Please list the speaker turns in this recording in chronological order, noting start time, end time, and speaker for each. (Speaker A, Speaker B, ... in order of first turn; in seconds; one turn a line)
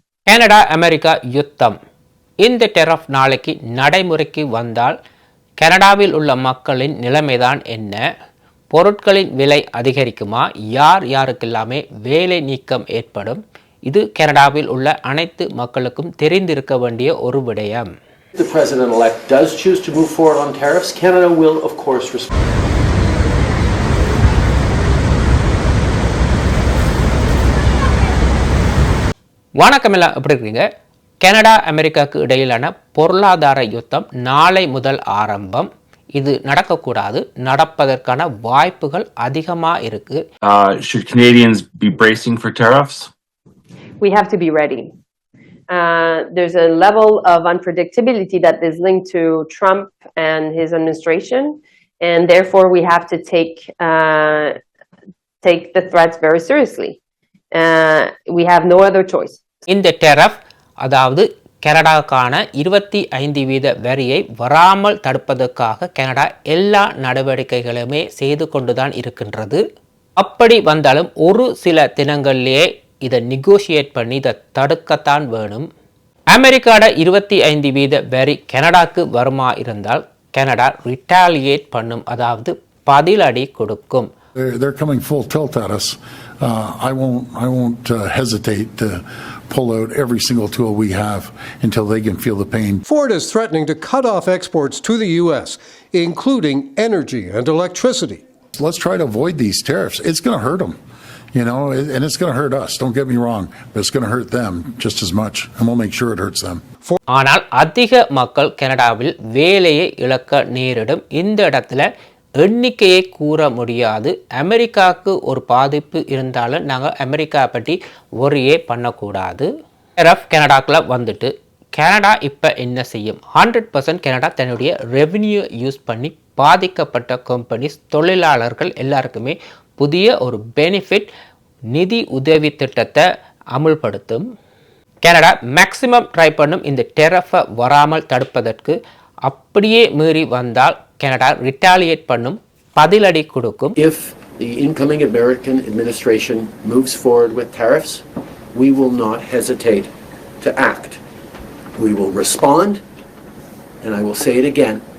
Speaker A: 0.3-1.8
Speaker A: 2.4-5.0
Speaker A: 5.6-8.0
Speaker A: 8.7-17.9
Speaker B: 18.4-22.3
Speaker A: 29.6-30.6
Speaker A: 31.2-40.2
Speaker C: 40.5-43.0
Speaker D: 44.0-44.9
Speaker D: 45.7-54.6
Speaker D: 55.4-57.0
Speaker D: 57.5-59.4
Speaker A: 59.7-69.6
Speaker A: 70.2-75.7
Speaker A: 76.3-84.1
Speaker E: 84.4-92.8
Speaker F: 92.9-98.2
Speaker E: 98.5-100.8
Speaker E: 101.3-106.6
Speaker A: 107.1-111.9
Speaker A: 112.4-119.5
Speaker A: 120.0-131.1
Speaker A: 131.7-133.0
Speaker A: 133.6-134.2
Speaker A: 135.0-143.8
Speaker B: 143.8-149.9
Speaker B: 150.4-151.0
Speaker B: 151.8-152.8
Speaker B: 153.8-154.8